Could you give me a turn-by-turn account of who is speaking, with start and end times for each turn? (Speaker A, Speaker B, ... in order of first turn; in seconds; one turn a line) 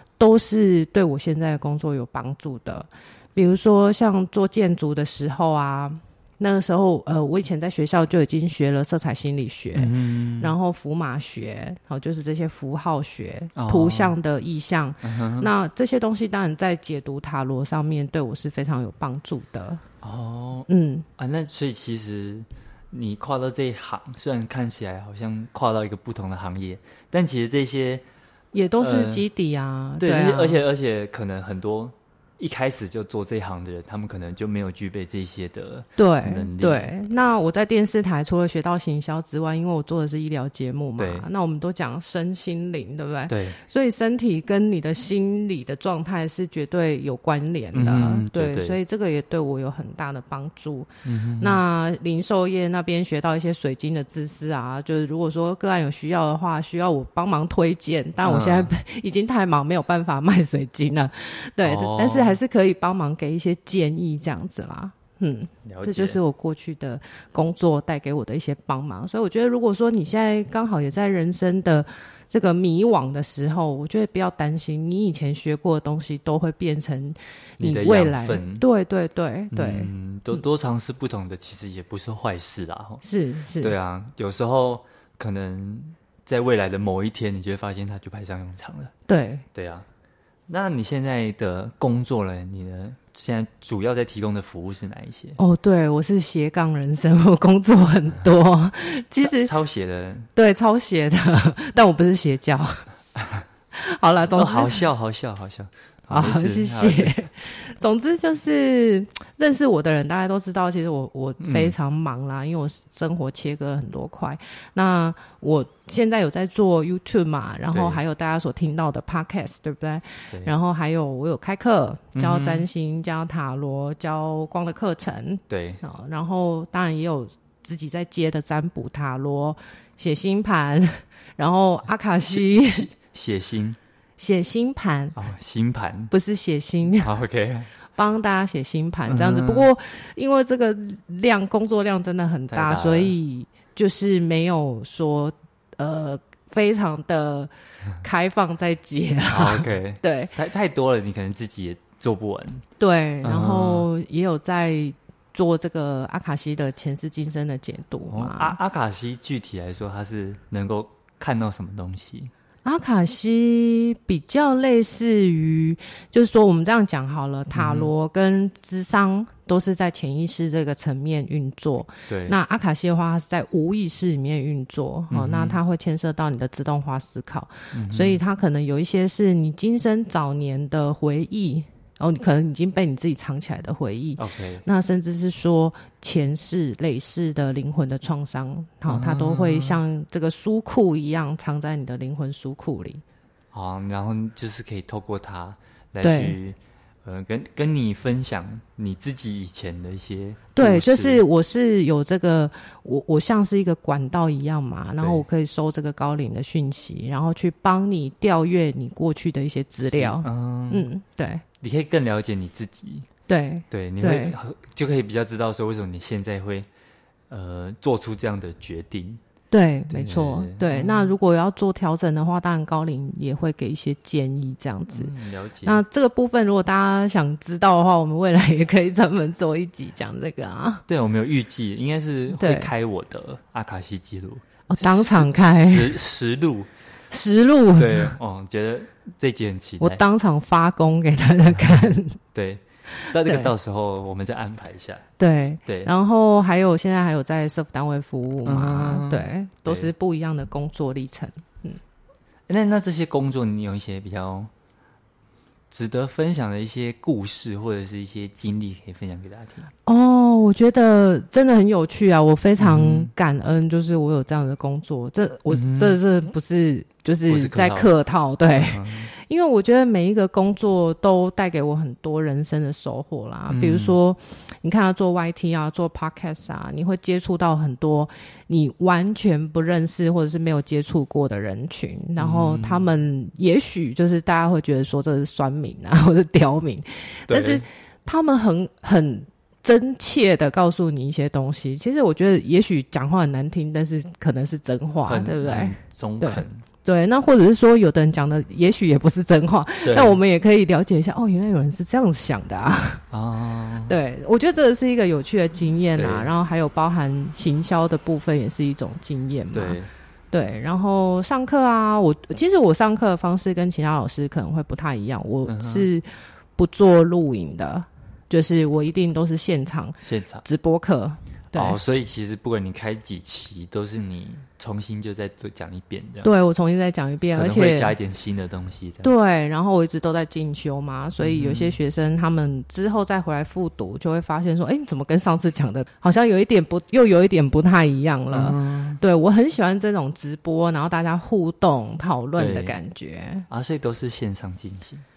Speaker A: 0.2-19.8
Speaker B: 9.7-10.5
Speaker B: 13.6-14.2
Speaker B: 15.0-15.5
Speaker B: 20.0-28.0
Speaker A: 20.7-21.1
Speaker A: 28.5-30.6
Speaker B: 28.8-29.2
Speaker B: 30.0-36.9
Speaker A: 36.0-79.9
Speaker B: 41.0-41.3
Speaker B: 43.3-43.6
Speaker B: 47.7-48.8
Speaker B: 51.0-51.6
Speaker B: 58.2-58.7
Speaker B: 61.6-62.4
Speaker B: 65.6-66.2
Speaker B: 77.6-78.6
Speaker B: 79.5-83.0
Speaker A: 83.0-83.7
Speaker B: 83.6-88.9
Speaker A: 89.1-89.5
Speaker B: 89.5-89.8
Speaker B: 90.5-95.4
Speaker A: 95.4-99.5
Speaker B: 99.2-100.3
Speaker A: 100.3-102.8
Speaker A: 103.7-104.8
Speaker B: 104.3-107.2
Speaker A: 106.1-132.9
Speaker B: 111.4-111.7
Speaker B: 117.7-118.0
Speaker B: 122.1-122.7
Speaker B: 125.5-125.8
Speaker B: 132.3-133.8
Speaker A: 134.2-135.2
Speaker B: 135.1-136.1
Speaker A: 136.1-137.1
Speaker B: 136.9-137.7
Speaker A: 137.9-150.3
Speaker B: 139.1-139.7
Speaker B: 142.5-143.1
Speaker B: 149.3-152.6
Speaker A: 152.8-158.6
Speaker B: 153.2-153.9
Speaker B: 158.1-162.3
Speaker A: 162.6-193.0
Speaker B: 167.5-167.9
Speaker B: 172.1-172.4
Speaker B: 175.1-175.6
Speaker B: 177.7-178.2
Speaker B: 184.2-184.6
Speaker B: 188.9-189.8
Speaker B: 193.5-201.2
Speaker A: 196.0-196.4
Speaker A: 200.5-211.4
Speaker B: 205.0-205.2
Speaker B: 209.8-210.8
Speaker B: 211.6-213.1
Speaker A: 213.3-214.3
Speaker B: 213.7-216.7
Speaker B: 217.3-219.2
Speaker A: 219.5-225.1
Speaker B: 219.9-221.1
Speaker B: 224.9-225.8
Speaker A: 225.6-230.8
Speaker B: 230.9-236.7
Speaker A: 232.3-232.7
Speaker A: 234.7-236.0
Speaker A: 237.1-238.1
Speaker B: 237.8-240.0
Speaker A: 239.8-242.2
Speaker B: 242.3-245.1
Speaker A: 243.0-243.5
Speaker A: 245.2-251.8
Speaker B: 248.4-249.9
Speaker B: 252.5-254.5
Speaker B: 255.7-259.7
Speaker A: 259.9-303.0
Speaker B: 262.6-263.1
Speaker B: 265.5-266.0
Speaker B: 267.3-267.9
Speaker B: 268.5-269.1
Speaker B: 273.5-274.0
Speaker B: 282.2-282.9
Speaker B: 287.3-287.6
Speaker B: 295.1-296.6
Speaker B: 299.8-300.2
Speaker B: 303.1-303.9
Speaker A: 303.9-309.8
Speaker B: 305.9-306.3
Speaker B: 309.5-309.9
Speaker A: 310.3-316.1
Speaker B: 315.4-315.9
Speaker A: 316.6-321.8
Speaker B: 320.0-320.4
Speaker B: 321.5-326.3
Speaker A: 326.2-327.9
Speaker B: 327.3-329.1
Speaker A: 329.0-343.5
Speaker B: 331.2-331.8
Speaker B: 338.3-339.0
Speaker B: 342.4-342.8
Speaker B: 343.5-345.0